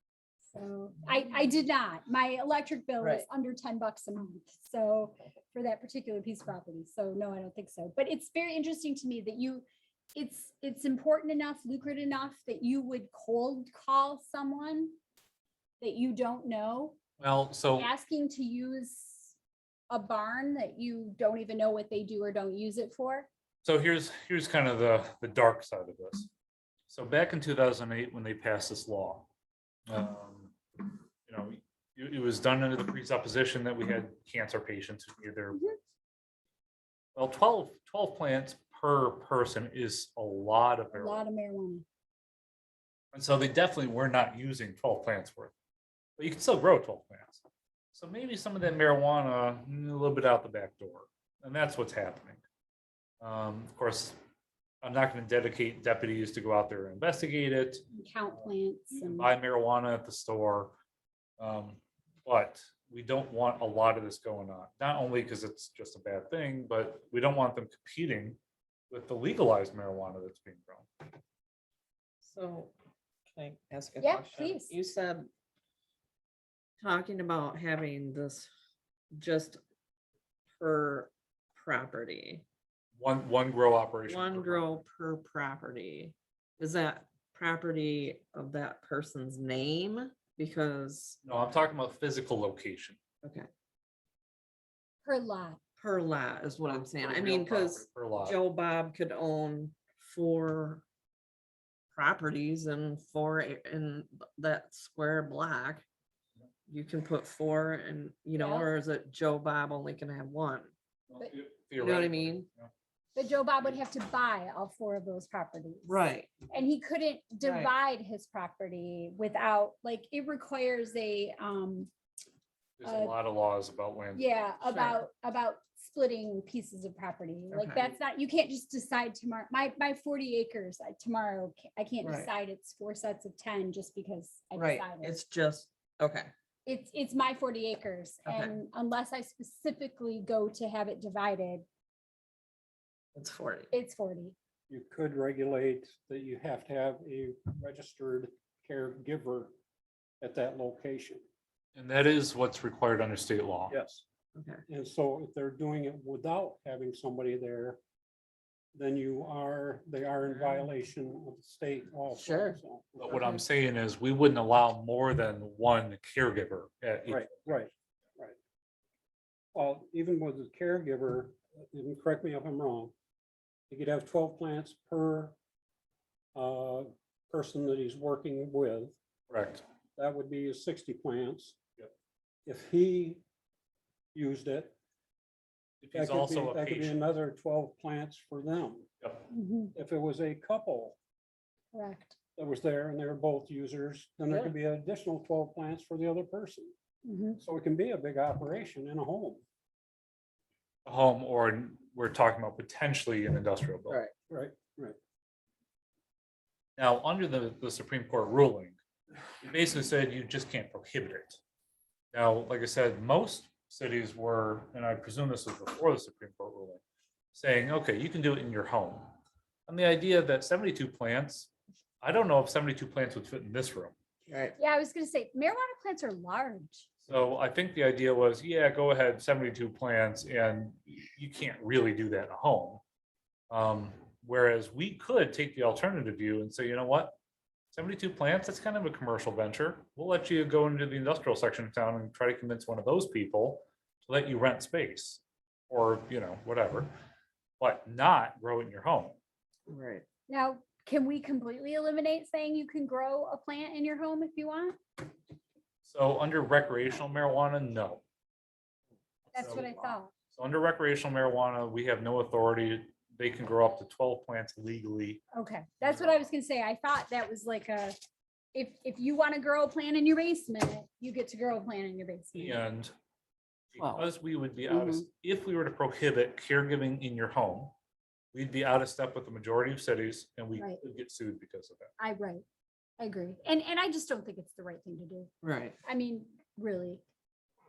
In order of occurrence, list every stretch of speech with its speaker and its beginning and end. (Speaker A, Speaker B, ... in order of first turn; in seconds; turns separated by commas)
Speaker A: 0.5-15.0, Speaker B: 3.0-3.2, Speaker A: 15.8-17.0, Speaker C: 17.2-17.9, Speaker A: 17.8-19.3, Speaker A: 19.9-23.3, Speaker C: 23.6-26.3, Speaker C: 26.9-29.3, Speaker C: 29.9-35.8, Speaker C: 37.1-41.2, Speaker A: 40.9-41.8, Speaker C: 43.1-45.5, Speaker C: 46.2-52.4, Speaker C: 53.2-54.2, Speaker C: 54.8-57.8, Speaker A: 57.9-59.3, Speaker C: 58.9-60.8, Speaker C: 61.4-68.4, Speaker C: 68.9-70.9, Speaker B: 72.2-72.7, Speaker B: 73.3-75.3, Speaker A: 74.0-74.7, Speaker B: 76.8-78.5, Speaker B: 79.1-79.6, Speaker B: 80.6-82.5, Speaker C: 83.0-84.7, Speaker B: 84.1-91.2, Speaker C: 91.2-93.0, Speaker B: 93.2-93.5, Speaker A: 95.0-95.6, Speaker B: 95.8-100.8, Speaker C: 97.0-98.4, Speaker B: 101.9-105.8, Speaker B: 106.7-110.7, Speaker A: 108.4-108.7, Speaker C: 111.1-112.7, Speaker B: 111.8-112.5, Speaker A: 113.1-115.9, Speaker B: 115.9-116.4, Speaker A: 116.5-121.9, Speaker B: 117.4-117.7, Speaker C: 122.8-124.3, Speaker A: 122.8-123.1, Speaker A: 124.1-135.2, Speaker B: 124.7-125.0, Speaker B: 127.5-127.9, Speaker B: 132.0-132.3, Speaker B: 134.5-136.3, Speaker A: 136.7-141.7, Speaker B: 138.2-138.6, Speaker B: 143.1-143.7, Speaker A: 143.7-144.3, Speaker D: 144.7-149.5, Speaker D: 150.2-151.2, Speaker C: 151.7-153.7, Speaker D: 153.7-154.0, Speaker B: 154.3-154.6, Speaker D: 154.7-157.8, Speaker D: 158.7-163.4, Speaker B: 160.3-160.6, Speaker B: 162.1-162.6, Speaker C: 163.0-167.6, Speaker D: 167.1-168.3, Speaker D: 169.5-172.9, Speaker D: 173.7-175.3, Speaker D: 176.3-178.9, Speaker C: 179.3-179.6, Speaker D: 179.9-181.6, Speaker D: 182.4-183.2, Speaker D: 184.1-184.7, Speaker C: 185.8-187.0, Speaker D: 185.9-188.9, Speaker A: 189.3-189.7, Speaker D: 189.7-190.9, Speaker A: 191.7-192.2, Speaker D: 192.3-196.7, Speaker B: 194.3-194.5, Speaker A: 197.0-197.4, Speaker D: 197.4-199.4, Speaker C: 200.8-204.0, Speaker D: 204.3-205.0, Speaker C: 206.8-208.8, Speaker C: 209.4-211.4, Speaker C: 212.1-216.8, Speaker C: 217.3-219.1, Speaker C: 219.7-221.5, Speaker C: 222.0-223.9, Speaker B: 224.3-224.5, Speaker A: 224.6-226.9, Speaker C: 227.1-232.8, Speaker C: 233.5-237.2, Speaker C: 237.7-246.9, Speaker C: 247.6-249.2, Speaker B: 249.7-250.1, Speaker A: 250.3-254.8, Speaker C: 255.8-258.0, Speaker C: 259.3-259.7, Speaker A: 259.3-260.1, Speaker C: 260.3-265.2, Speaker A: 265.3-268.0, Speaker C: 265.8-266.3, Speaker A: 268.5-272.6, Speaker C: 272.4-272.9, Speaker C: 273.8-277.8, Speaker B: 273.8-274.1, Speaker B: 274.7-275.1, Speaker C: 278.3-281.9, Speaker A: 280.6-280.8, Speaker A: 282.0-282.4, Speaker A: 283.0-285.3, Speaker B: 285.4-285.8, Speaker A: 285.8-287.0